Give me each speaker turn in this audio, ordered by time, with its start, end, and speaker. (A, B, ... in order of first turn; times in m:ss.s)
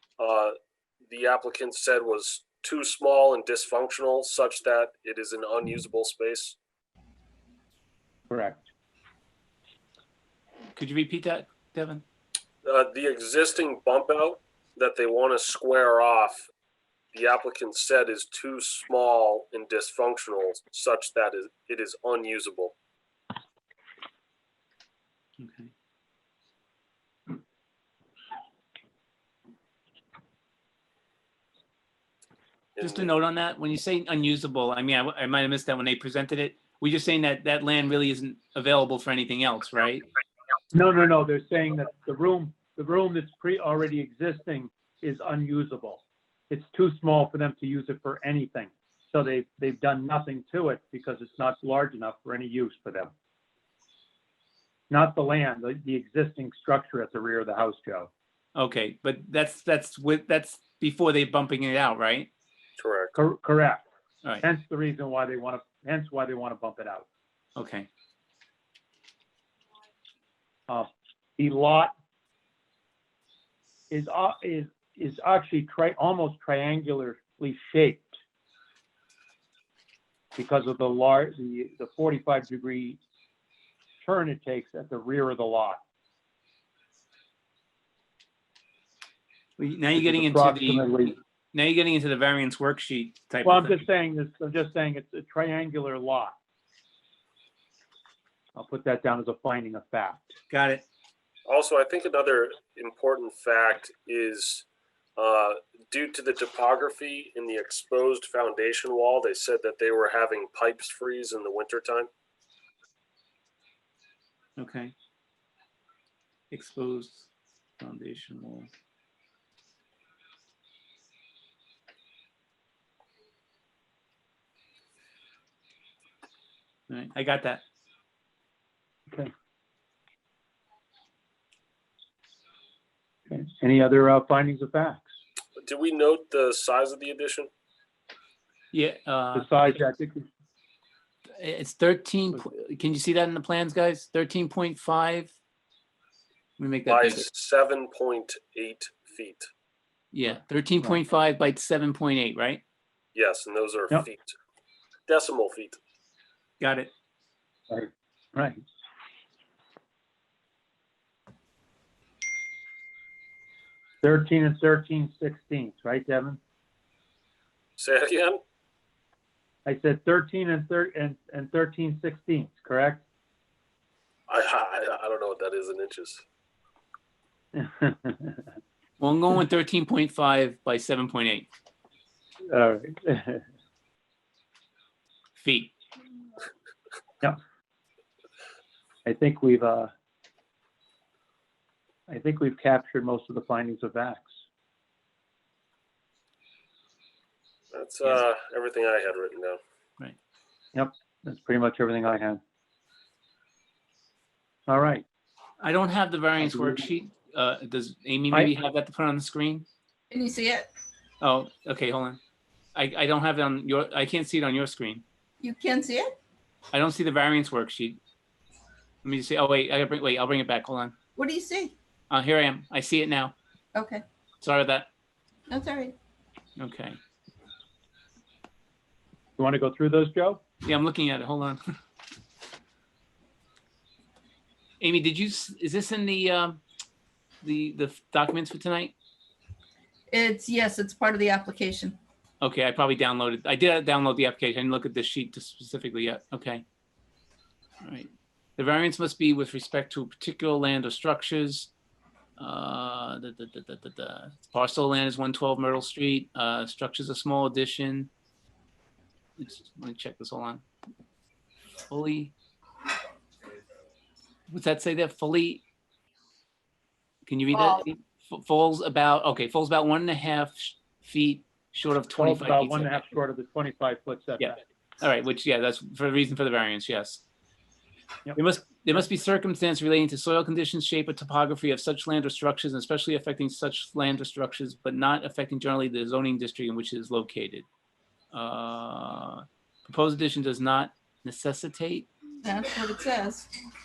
0:00.2-0:00.5 A
0:01.1-0:06.6 A
0:08.3-0:08.6 B
0:10.7-0:12.0 C
0:12.6-0:16.5 A
0:17.1-0:22.7 A
0:25.4-0:25.7 C
0:32.8-0:33.1 A
0:32.8-0:40.0 C
0:40.7-0:53.1 B
0:54.9-0:58.1 B
0:58.5-1:02.3 C
1:02.8-1:03.1 A
1:03.1-1:03.8 B
1:04.4-1:07.0 B
1:07.6-1:07.9 C
1:10.7-1:11.9 B
1:13.9-1:18.1 B
1:20.4-1:23.0 B
1:24.0-1:25.8 B
1:29.6-1:33.8 C
1:30.0-1:31.2 B
1:33.4-1:36.3 B
1:38.5-1:40.4 B
1:40.5-1:40.8 C
1:41.5-1:44.6 A
1:45.2-1:52.1 A
1:54.6-1:54.9 C
1:56.5-1:58.7 C
2:06.9-2:07.6 C
2:13.3-2:15.1 B
2:15.6-2:17.5 A
2:18.7-2:19.7 C
2:19.3-2:20.2 B
2:21.4-2:25.3 C
2:26.6-2:27.2 C
2:26.8-2:29.5 A
2:30.1-2:32.6 C
2:33.1-2:34.3 A
2:35.1-2:35.8 A
2:36.6-2:36.9 C
2:37.7-2:38.6 B
2:44.0-2:46.4 B
2:47.8-2:48.4 A
2:49.6-2:53.0 B
2:54.3-2:56.2 A
2:57.5-2:58.4 B
2:59.0-3:01.4 C
3:02.5-3:03.4 B
3:05.4-3:05.7 C
3:09.0-3:09.9 B
3:12.1-3:14.3 B
3:17.7-3:19.6 A
3:20.7-3:22.4 B
3:24.7-3:25.0 B
3:25.6-3:29.6 C
3:30.1-3:30.7 D
3:31.2-3:32.2 C
3:32.7-3:35.0 C
3:35.4-3:36.1 D
3:36.7-3:38.0 C
3:39.0-3:40.9 C
3:41.2-3:41.7 D
3:42.1-3:43.3 C
3:43.7-3:44.0 D
3:44.4-3:44.9 C
3:45.5-3:46.0 D
3:46.6-3:47.0 C
3:49.4-3:50.4 B
3:50.6-3:51.6 C
3:54.8-3:56.6 C
3:57.4-3:58.9 C
4:00.1-4:02.0 D
4:02.4-4:06.6 C
4:07.8-4:11.7 C
4:12.4-4:18.1 C
4:19.4-4:20.6 C
4:21.9-4:22.3 C
4:24.5-4:25.6 C
4:27.2-4:33.0 C
4:27.5-4:27.8 D
4:32.2-4:34.6 B
4:34.4-4:37.2 C
4:38.4-4:47.6 C
4:48.3-4:52.1 C
4:52.4-4:53.5 D